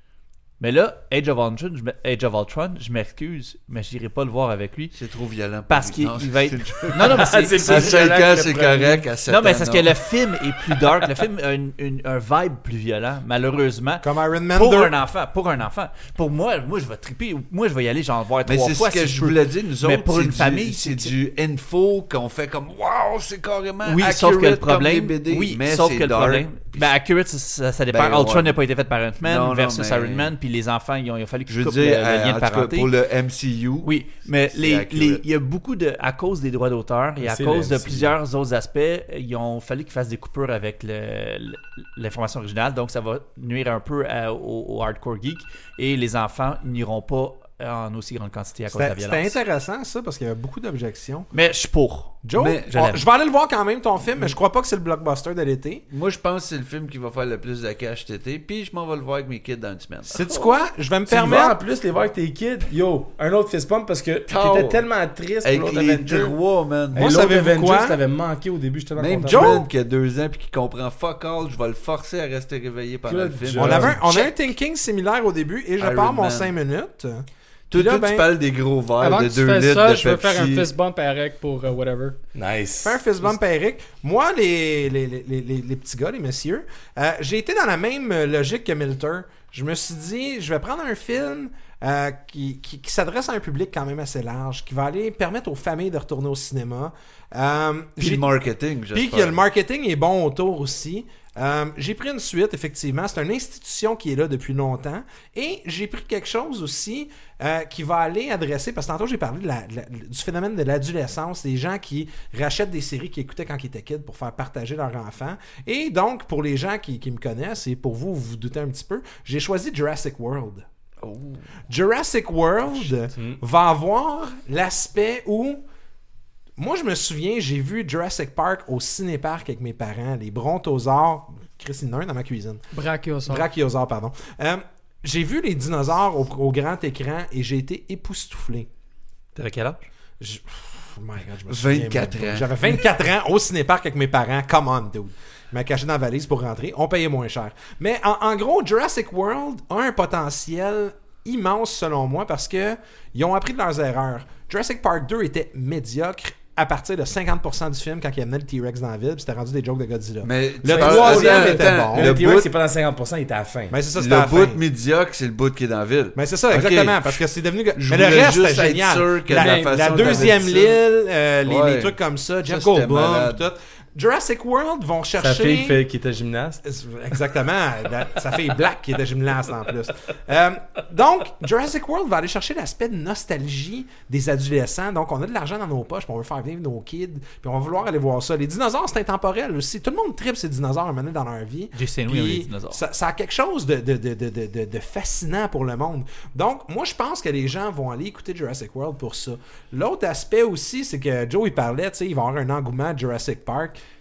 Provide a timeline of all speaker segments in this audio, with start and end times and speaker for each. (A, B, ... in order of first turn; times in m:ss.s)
0:00.6-0:05.0 A
0:04.9-0:10.0 B
0:05.7-0:08.0 A
0:06.9-0:09.1 C
0:09.3-0:21.1 A
0:14.0-0:14.9 D
0:18.5-0:26.9 B
0:23.8-0:32.9 A
0:27.9-0:28.5 B
0:29.2-0:30.3 B
0:31.5-0:35.2 B
0:33.8-0:49.4 A
0:37.2-0:38.1 C
0:48.7-0:51.3 D
0:51.3-0:53.0 A
0:52.2-0:55.8 D
0:52.4-0:52.7 B
0:55.9-1:00.5 B
1:00.1-1:01.6 D
1:01.1-1:06.4 C
1:04.3-1:04.8 B
1:05.4-1:07.2 B
1:06.9-1:08.0 D
1:06.9-1:09.6 C
1:09.0-1:14.4 B
1:09.3-1:09.7 D
1:13.1-1:14.0 C
1:13.6-1:18.3 D
1:15.8-1:16.5 B
1:17.7-1:20.7 B
1:19.0-1:22.2 E
1:22.4-1:23.0 C
1:22.8-1:38.3 D
1:38.0-1:39.4 B
1:38.9-2:00.6 D
2:01.0-2:01.6 B
2:01.7-2:05.6 D
2:03.1-2:03.4 C
2:06.6-2:12.6 D
2:12.7-2:13.5 E
2:13.3-2:18.7 D
2:19.4-2:19.9 A
2:20.2-2:42.2 D
2:21.5-2:22.8 B
2:40.2-2:42.5 B
2:40.8-2:43.8 C
2:43.7-2:44.6 D
2:44.0-2:47.2 B
2:46.2-2:55.8 D
2:47.8-2:50.8 B
2:49.3-2:50.3 E
2:51.4-2:53.4 B
2:55.2-2:56.6 C
2:56.6-3:23.8 D
3:11.8-3:12.8 A